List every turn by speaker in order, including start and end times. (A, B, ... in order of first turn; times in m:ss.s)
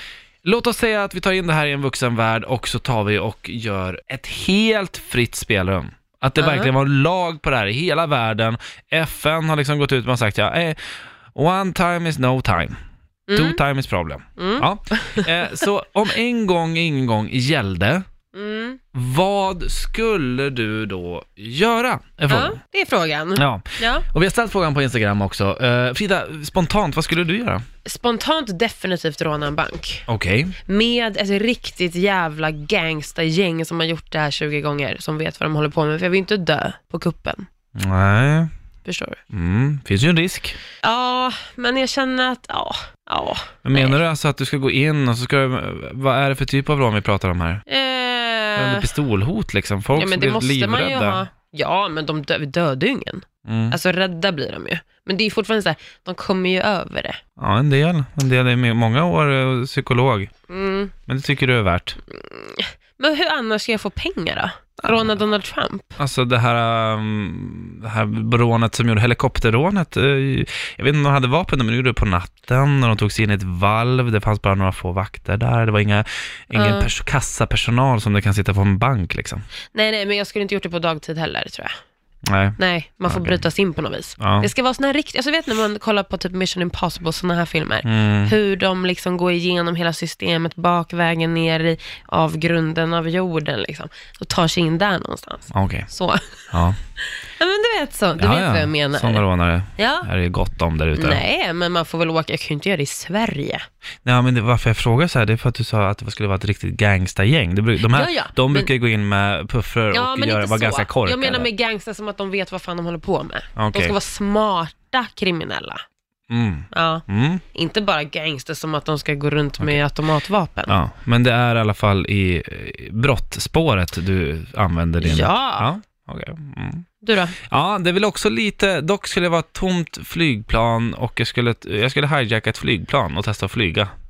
0:00.4-0:10.8 A
0:06.4-0:06.7 B
0:11.3-0:12.8 A
0:13.3-0:13.6 B
0:13.3-0:18.0 A
0:14.4-0:15.3 B
0:18.3-0:18.8 B
0:18.9-0:22.6 A
0:22.3-0:24.0 B
0:23.4-0:27.6 A
0:27.8-0:30.0 B
0:30.1-0:30.5 A
0:30.7-0:37.5 B
0:37.8-0:38.5 A
0:38.8-0:39.2 B
0:39.3-0:40.6 A
0:40.8-0:44.0 B
0:43.6-0:47.6 A
0:47.7-0:48.9 B
0:48.6-0:51.2 A
0:49.9-0:57.2 B
0:53.4-0:53.8 A
0:57.4-1:00.3 A
1:00.5-1:00.9 B
1:01.1-1:02.0 A
1:02.1-1:06.0 B
1:06.0-1:19.4 A
1:16.5-1:16.9 B
1:19.7-1:21.7 B
1:22.3-1:23.4 A
1:22.6-1:36.5 B
1:24.2-1:24.5 A
1:27.8-1:28.3 A
1:35.5-1:35.9 A
1:36.5-1:36.8 A
1:37.4-1:39.2 B
1:38.2-1:41.2 A
1:39.8-1:40.1 B
1:40.9-1:43.6 B
1:44.0-1:51.5 A
1:47.9-1:48.7 B
1:49.9-1:55.8 B
1:53.6-1:54.0 A
1:56.3-1:57.4 A
1:56.7-2:00.7 B
2:00.7-2:06.9 A
2:05.0-2:05.7 B
2:07.0-2:07.4 B
2:07.4-2:13.9 A